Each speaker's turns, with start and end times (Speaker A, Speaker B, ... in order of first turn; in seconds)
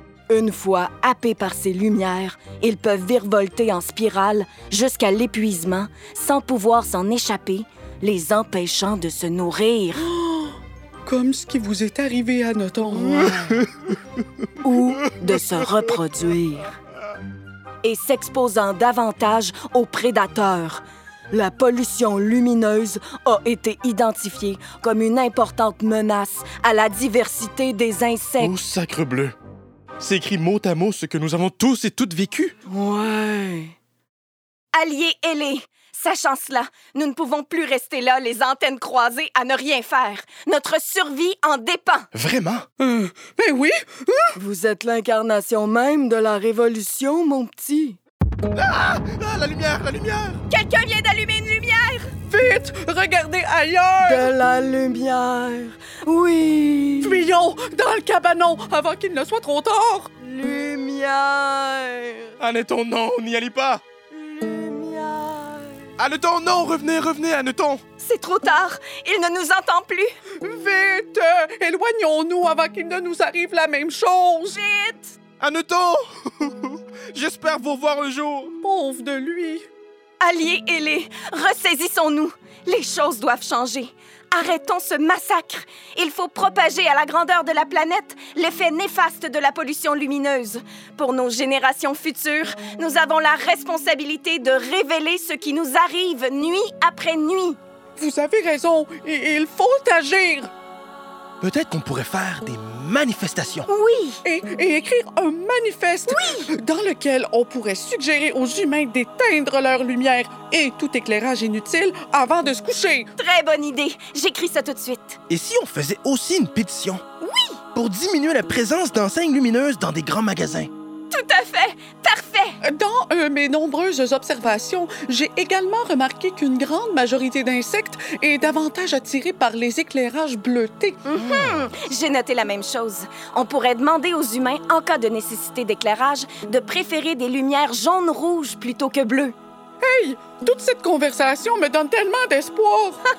Speaker A: 0.3-10.1, 14.6-16.7, 17.8-28.6, 32.7-33.7, 44.4-48.0, 54.0-57.3, 60.2-62.3, 64.1-65.9
Speaker B: 10.0-13.3, 42.8-44.4, 52.3-54.3, 57.0-60.1, 70.4-74.6, 78.6-79.7, 98.0-100.5, 104.2-113.1, 122.6-131.0, 139.8-143.0
Speaker C: 13.3-13.7, 28.4-29.4, 30.0-32.5, 42.1-42.6, 48.5-50.4, 62.4-63.8, 66.0-67.8, 75.4-78.5, 101.4-103.7, 115.3-117.0, 117.7-120.7
Speaker D: 34.7-42.1, 50.5-52.1, 68.0-70.1, 74.5-75.1, 80.2-97.6, 103.7-104.2, 106.1-106.5, 113.2-115.2, 117.2-117.6, 121.1-122.6, 131.1-139.3